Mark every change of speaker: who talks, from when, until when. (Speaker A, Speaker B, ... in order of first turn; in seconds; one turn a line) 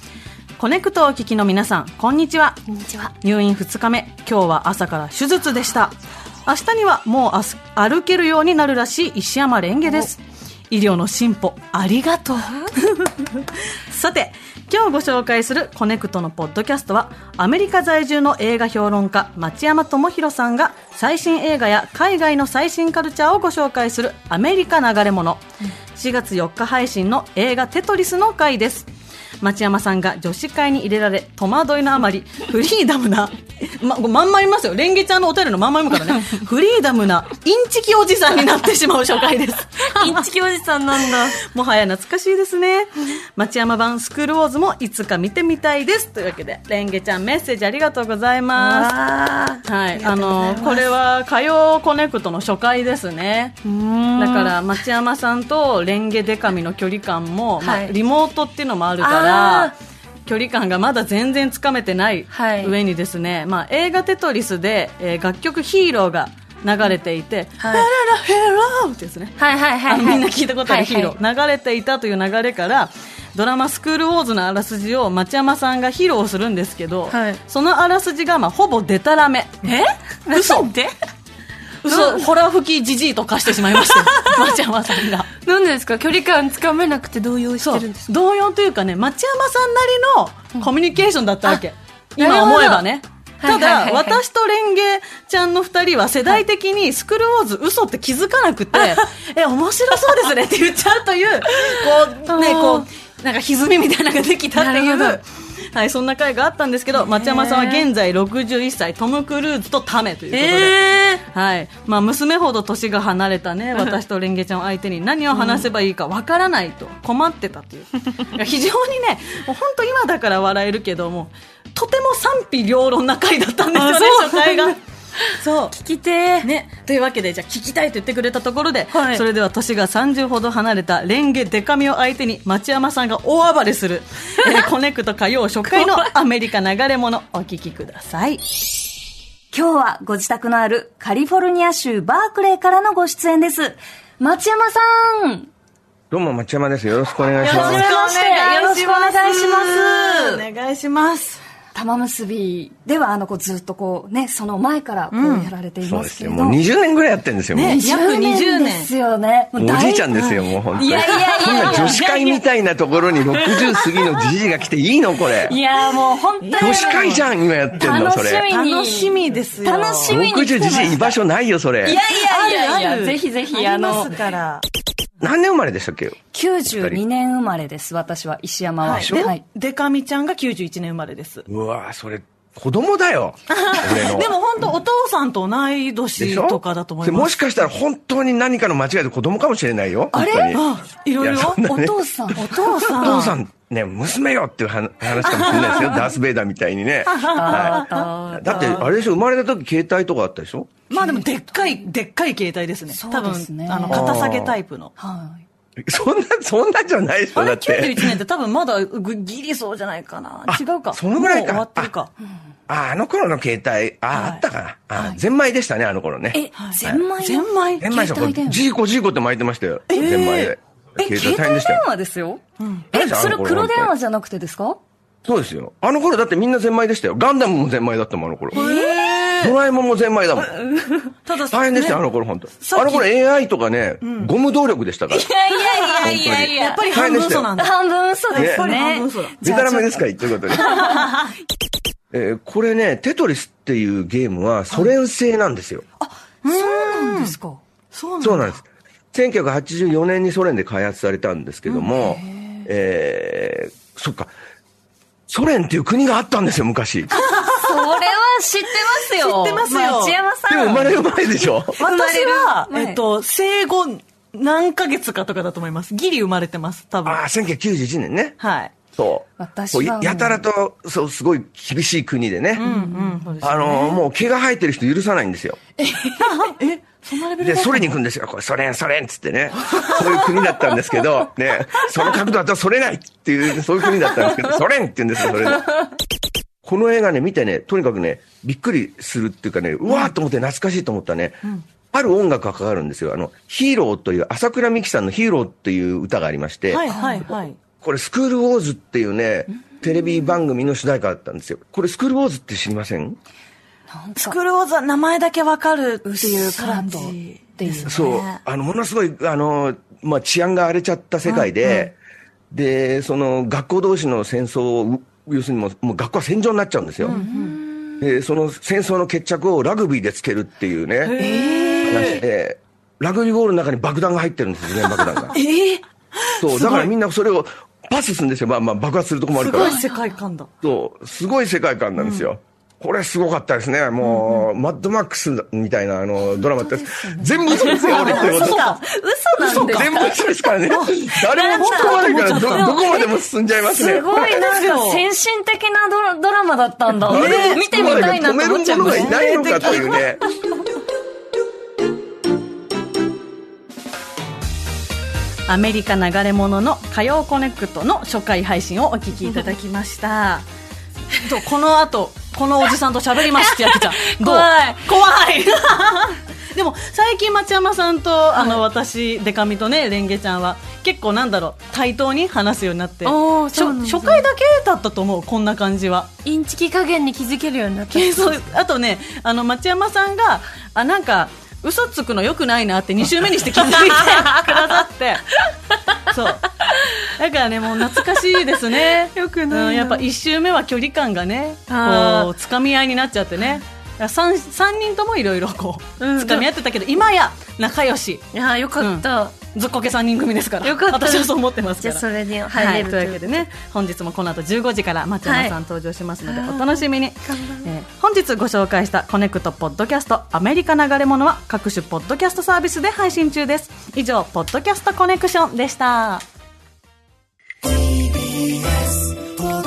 Speaker A: 0.6-2.6
Speaker B: 2.7-3.1
Speaker A: 3.2-6.0
Speaker A: 6.5-25.4
Speaker A: 25.9-28.9
Speaker A: 29.4-40.3
Speaker B: 39.8-41.4
Speaker A: 41.1-48.9
Speaker B: 48.6-50.9
Speaker A: 49.6-53.6
Speaker B: 53.6-54.6
Speaker A: 54.2-59.7
Speaker B: 57.6-57.9
Speaker B: 59.0-59.7
Speaker A: 60.3-79.8
Speaker B: 62.3-62.7
Speaker B: 67.6-67.9
Speaker B: 69.4-71.2
Speaker B: 77.1-77.4
Speaker B: 79.6-80.9
Speaker A: 80.3-80.8
Speaker A: 81.8-85.3
Speaker B: 81.9-82.3
Speaker B: 83.7-84.5
Speaker B: 85.4-88.1
Speaker A: 87.6-124.8
Speaker B: 92.2-92.8
Speaker B: 93.4-94.2
Speaker B: 101.5-102.9
Speaker B: 104.5-105.2
Speaker B: 107.0-107.9
Speaker B: 110.3-111.2
Speaker B: 115.3-115.7
Speaker B: 123.8-124.8
Speaker B: 125.3-126.5
Speaker A: 125.3-125.8
Speaker A: 126.4-138.4
Speaker B: 128.9-129.2
Speaker C: 139.5-145.5
Speaker D: 146.1-147.9
Speaker A: 147.4-151.4
Speaker C: 147.4-150.3
Speaker C: 151.7-156.6
Speaker A: 155.1-155.5
Speaker D: 155.8-157.8
Speaker A: 157.5-158.9
Speaker C: 157.6-162.4
Speaker D: 159.6-165.6
Speaker A: 160.9-161.9
Speaker C: 163.3-164.2
Speaker C: 165.3-171.2
Speaker A: 166.4-167.2
Speaker D: 166.6-168.5
Speaker A: 168.5-170.2
Speaker D: 170.1-172.0
Speaker C: 171.8-174.2
Speaker A: 171.9-174.6
Speaker D: 175.2-177.0
Speaker C: 176.3-179.4
Speaker D: 178.8-179.3
Speaker A: 178.8-181.5
Speaker D: 181.5-184.3
Speaker A: 183.5-187.4
Speaker D: 186.2-190.7
Speaker C: 190.1-190.6
Speaker A: 190.5-193.4
Speaker D: 191.2-200.7
Speaker C: 191.7-192.4
Speaker A: 195.1-196.1
Speaker A: 197.1-198.9
Speaker C: 197.3-198.9
Speaker A: 200.9-204.9
Speaker C: 201.0-201.8
Speaker C: 202.9-204.2
Speaker D: 203.9-204.6
Speaker C: 205.0-205.4
Speaker D: 205.9-208.2
Speaker A: 207.3-212.1
Speaker D: 210.5-211.9
Speaker D: 212.7-217.1
Speaker A: 214.1-214.4
Speaker C: 216.3-218.6
Speaker A: 216.6-217.9
Speaker D: 217.8-221.8
Speaker A: 219.9-221.2
Speaker C: 221.1-222.4
Speaker A: 222.6-222.9
Speaker C: 222.9-224.8
Speaker D: 222.9-223.9
Speaker D: 225.2-228.7
Speaker C: 228.5-229.4
Speaker A: 228.5-229.6
Speaker D: 229.4-230.7
Speaker C: 230.6-231.1
Speaker A: 231.2-232.0
Speaker D: 231.5-235.3
Speaker A: 232.6-233.1
Speaker A: 234.0-234.3
Speaker C: 235.1-241.1
Speaker A: 235.5-237.8
Speaker D: 236.0-237.5
Speaker A: 238.3-239.4
Speaker D: 238.3-238.7
Speaker D: 239.4-240.9
Speaker A: 240.6-241.3
Speaker D: 242.1-245.8
Speaker A: 246.4-247.4
Speaker C: 246.4-247.6
Speaker A: 247.9-248.6
Speaker D: 248.2-254.3
Speaker C: 251.9-252.7
Speaker D: 255.3-257.1
Speaker A: 257.1-258.1
Speaker C: 257.2-261.1
Speaker A: 258.7-260.2
Speaker D: 260.5-261.8
Speaker A: 261.8-267.2
Speaker C: 261.8-263.0
Speaker D: 267.1-268.4
Speaker A: 268.4-268.7
Speaker D: 269.0-272.7
Speaker C: 269.4-270.4
Speaker A: 272.6-274.0
Speaker C: 272.6-273.1
Speaker D: 273.4-275.6
Speaker A: 275.8-277.9
Speaker D: 277.4-285.9
Speaker A: 279.7-280.7
Speaker D: 286.6-296.8
Speaker A: 289.9-290.1
Speaker A: 296.7-297.6
Speaker C: 296.9-297.2
Speaker D: 297.8-303.2
Speaker C: 303.9-304.4
Speaker A: 304.2-308.4
Speaker C: 306.0-308.2
Speaker D: 307.9-311.9
Speaker A: 311.2-311.9
Speaker D: 312.5-317.2
Speaker A: 317.0-317.6
Speaker C: 317.1-318.1
Speaker D: 318.0-321.2
Speaker A: 321.0-322.2
Speaker D: 321.9-325.4
Speaker A: 324.9-326.9
Speaker D: 326.4-329.8
Speaker A: 329.3-330.5
Speaker C: 329.6-330.0
Speaker D: 330.6-338.7
Speaker A: 332.0-332.3
Speaker A: 334.0-334.5
Speaker C: 336.4-340.2
Speaker A: 337.4-338.8
Speaker A: 339.4-340.0
Speaker D: 339.5-344.5
Speaker A: 340.7-343.0
Speaker C: 341.3-349.9
Speaker A: 344.1-345.0
Speaker A: 347.0-347.9
Speaker D: 347.1-350.2
Speaker A: 348.9-350.0
Speaker A: 355.5-360.5
Speaker A: 361.1-376.1
Speaker B: 363.4-364.9
Speaker B: 373.0-374.3
Speaker B: 376.2-378.4
Speaker A: 377.9-385.4
Speaker B: 383.7-384.7
Speaker B: 385.5-385.9
Speaker A: 386.1-398.2
Speaker B: 388.8-390.1
Speaker B: 391.7-392.3
Speaker B: 396.0-396.5
Speaker B: 398.3-399.4
Speaker A: 398.8-416.2
Speaker B: 400.6-403.4
Speaker B: 405.2-405.5
Speaker B: 406.2-407.6